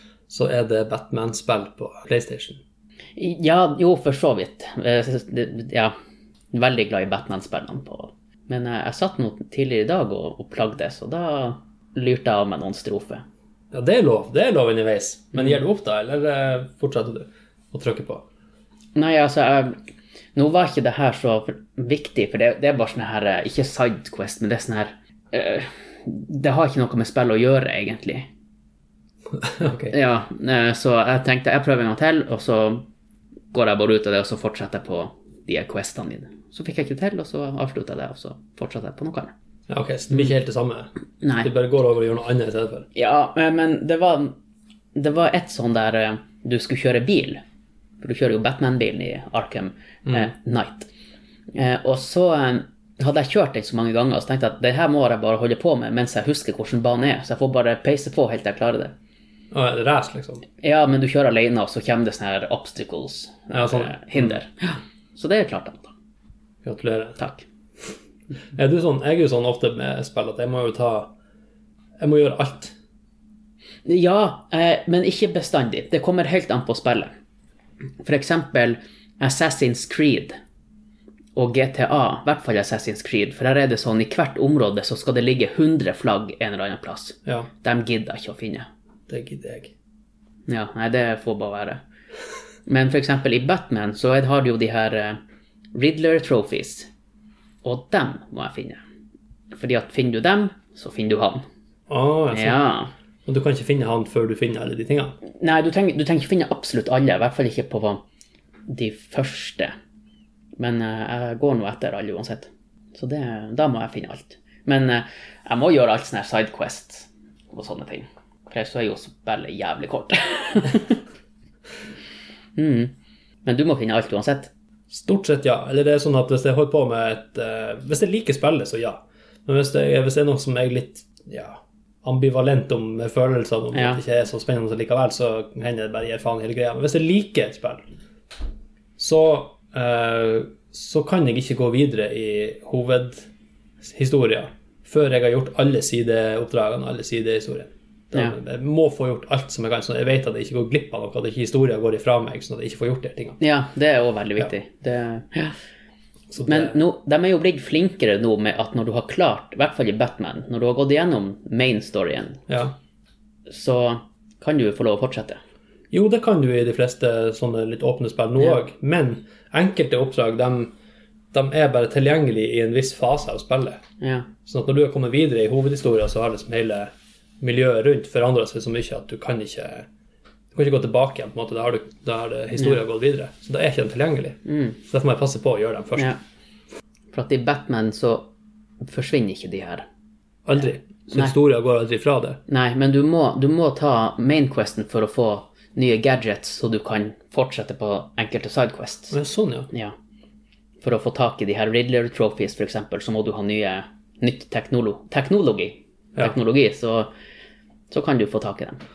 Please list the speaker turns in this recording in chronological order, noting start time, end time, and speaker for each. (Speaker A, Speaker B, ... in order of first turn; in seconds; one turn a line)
Speaker A: 0.3-2.6
Speaker B: 3.2-5.9
Speaker B: 6.5-13.2
Speaker A: 13.7-18.2
Speaker B: 19.0-19.8
Speaker B: 20.4-28.3
Speaker A: 29.4-29.9
Speaker B: 29.7-32.9
Speaker B: 33.5-39.3
Speaker A: 39.7-40.9
Speaker B: 41.2-41.5
Speaker A: 41.4-42.9
Speaker B: 43.0-44.4
Speaker B: 45.0-47.4
Speaker B: 48.0-50.9
Speaker B: 51.5-58.9
Speaker A: 59.5-60.5
Speaker B: 60.6-65.9
Speaker A: 63.5-64.4
Speaker A: 66.6-67.2
Speaker B: 67.2-67.4
Speaker A: 68.5-71.1
Speaker A: 72.0-72.7
Speaker B: 73.9-77.1
Speaker B: 78.0-80.4
Speaker B: 81.4-88.7
Speaker A: 89.1-89.7
Speaker B: 90.5-91.8
Speaker B: 92.7-95.2
Speaker B: 95.7-96.9
Speaker B: 97.6-98.8
Speaker B: 99.5-101.4
Speaker A: 101.9-102.6
Speaker B: 102.3-102.9
Speaker A: 103.2-105.2
Speaker B: 105.4-108.0
Speaker B: 108.7-109.7
Speaker B: 110.6-121.0
Speaker B: 122.6-122.9
Speaker B: 123.5-124.5
Speaker A: 124.9-137.8
Speaker B: 133.7-134.0
Speaker A: 139.0-143.3
Speaker A: 143.8-153.4
Speaker B: 153.4-155.6
Speaker A: 156.3-156.8
Speaker B: 156.5-162.4
Speaker A: 162.5-162.8
Speaker B: 163.5-165.4
Speaker A: 165.9-170.7
Speaker A: 171.3-173.8
Speaker B: 174.0-174.3
Speaker A: 174.5-179.9
Speaker A: 180.5-186.1
Speaker B: 184.4-184.8
Speaker B: 187.1-188.3
Speaker B: 188.8-189.9
Speaker A: 190.4-192.4
Speaker B: 192.5-199.2
Speaker A: 199.1-199.7
Speaker B: 200.8-207.1
Speaker B: 207.9-208.8